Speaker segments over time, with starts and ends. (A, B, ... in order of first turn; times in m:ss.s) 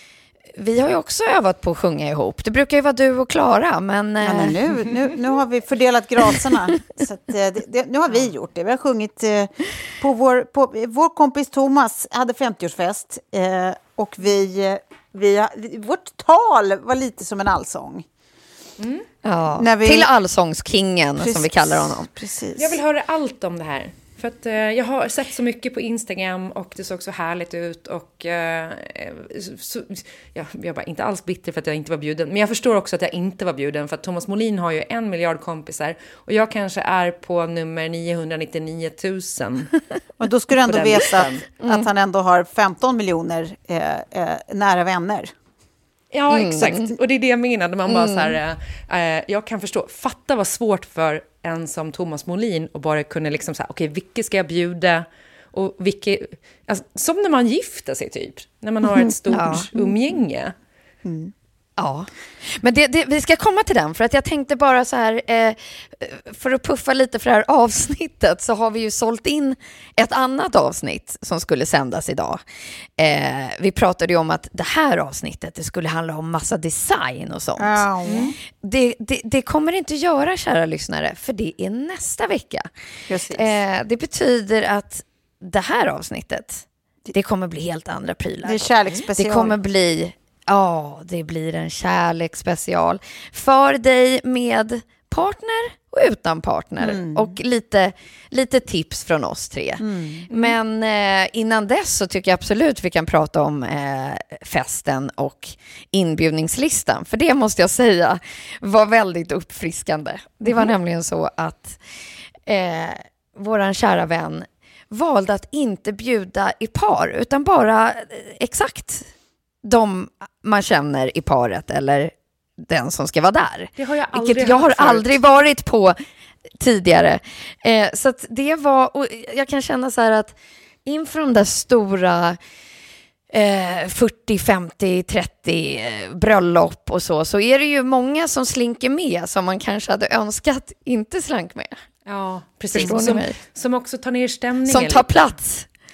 0:00.6-0:04.6 A
0:04.2-0:18.1 B
0:18.8-0:19.1 C
0:19.2-0:22.1 A
0:19.6-0:20.1 B
0:21.2-0:22.8 B
0:22.6-0:39.7 C
0:40.2-0:45.3 B
0:40.7-0:41.4 C
0:41.6-0:41.9 A
0:46.1-1:00.5 C
0:46.3-0:46.9 A
0:47.9-0:48.4 A
0:59.3-0:59.7 A
0:59.5-0:59.9 B
1:01.0-1:01.3 B
1:01.8-1:12.4 A
1:13.0-1:17.8 A
1:17.6-1:18.3 B
1:18.0-1:18.3 C
1:18.6-1:22.7 A
1:23.1-1:23.6 B
1:23.3-1:51.8 A
1:28.4-1:29.6 B
1:36.8-1:37.4 B
1:39.8-1:40.3 B
1:52.5-1:59.1 A
1:59.6-2:06.0 A
2:03.8-2:05.1 C
2:06.6-2:10.4 A
2:10.9-2:12.4 A
2:13.3-2:21.8 A
2:22.1-2:25.3 C
2:22.7-2:23.4 A
2:22.8-2:23.2 B
2:24.7-2:25.7 A